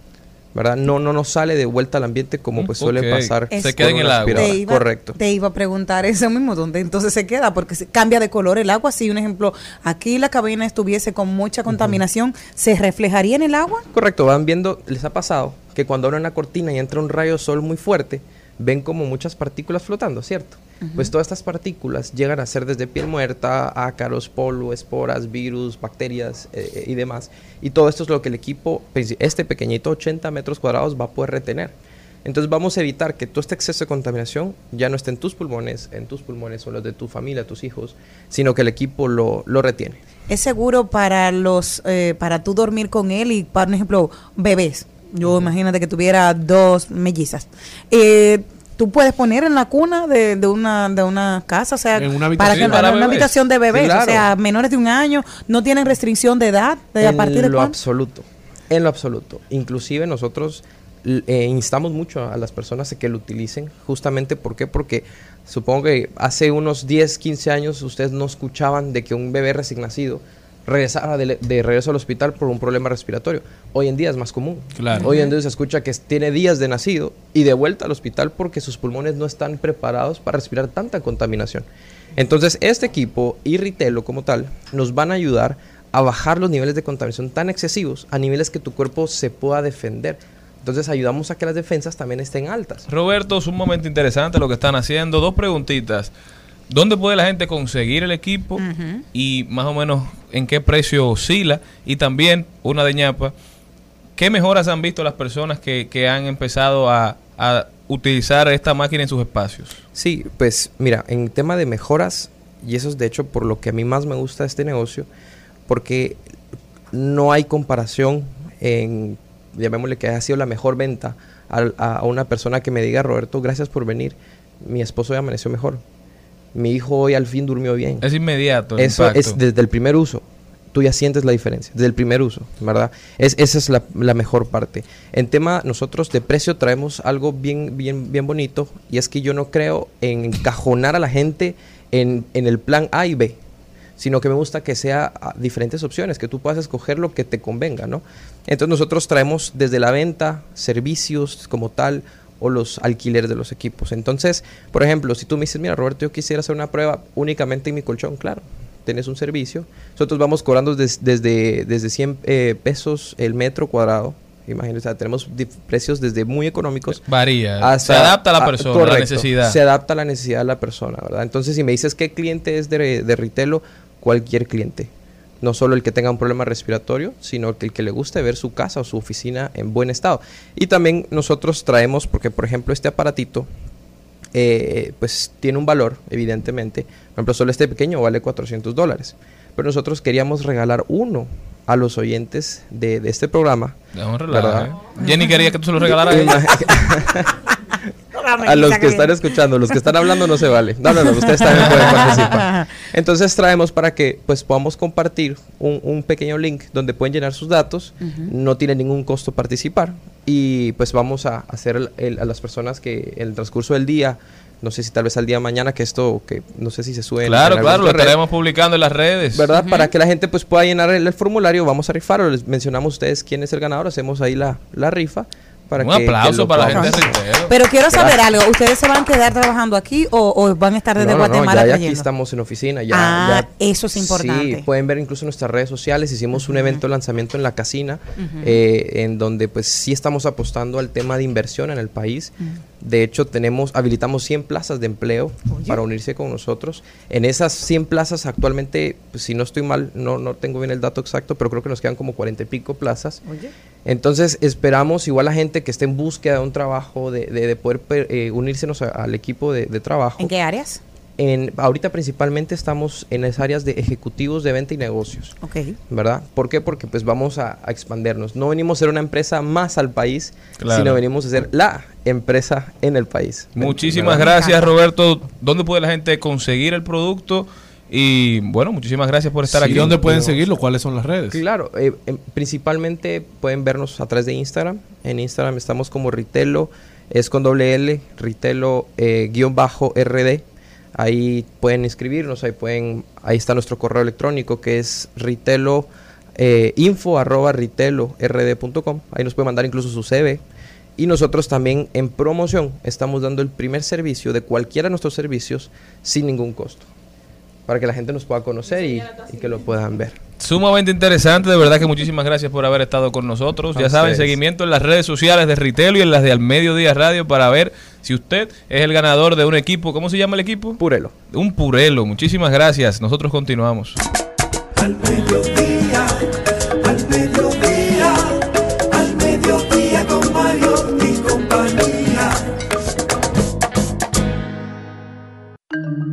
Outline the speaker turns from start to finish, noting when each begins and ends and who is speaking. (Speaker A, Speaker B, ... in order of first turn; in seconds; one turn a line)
Speaker A: 0.6-5.2
Speaker B: 2.6-4.6
Speaker C: 3.5-3.8
Speaker C: 4.3-13.8
Speaker A: 13.9-40.0
Speaker C: 20.8-21.1
Speaker C: 40.3-57.8
Speaker D: 52.0-53.0
Speaker B: 52.4-53.4
Speaker A: 53.7-54.3
Speaker A: 57.0-92.9
Speaker D: 74.8-75.0
Speaker C: 74.9-75.3
Speaker B: 92.9-96.1
Speaker B: 96.7-103.3
Speaker C: 98.6-99.0
Speaker B: 104.2-109.8
Speaker A: 109.9-115.1
Speaker A: 115.7-116.2
Speaker A: 116.9-125.8
Speaker A: 126.5-128.1
Speaker B: 128.0-129.4
Speaker A: 128.8-143.4
Speaker A: 144.0-167.0
Speaker B: 166.9-169.6
Speaker A: 167.6-174.9
Speaker A: 175.4-183.5
Speaker A: 184.3-193.8
Speaker B: 193.9-196.6
Speaker A: 194.3-194.8
Speaker C: 195.0-196.4
Speaker A: 195.8-197.3
Speaker C: 198.1-199.2
Speaker A: 198.4-218.2
Speaker C: 201.1-202.7
Speaker C: 208.0-208.3
Speaker B: 217.2-219.5
Speaker A: 219.3-227.2
Speaker C: 219.5-219.9
Speaker B: 225.8-228.1
Speaker C: 226.7-232.1
Speaker A: 231.0-253.2
Speaker C: 232.9-234.7
Speaker C: 236.4-236.8
Speaker C: 238.2-238.6
Speaker C: 245.5-245.8
Speaker C: 253.2-253.5
Speaker A: 253.8-260.4
Speaker C: 260.2-260.8
Speaker A: 261.2-265.4
Speaker C: 265.4-265.8
Speaker A: 265.9-274.3
Speaker B: 270.6-271.0
Speaker B: 273.6-280.4
Speaker C: 274.1-274.6
Speaker D: 279.5-281.4
Speaker A: 279.7-280.2
Speaker A: 281.3-290.4
Speaker A: 291.0-300.4
Speaker A: 301.0-306.9
Speaker A: 307.7-310.2
Speaker B: 310.4-324.0
Speaker A: 313.8-314.4
Speaker A: 320.8-321.1
Speaker E: 324.8-332.5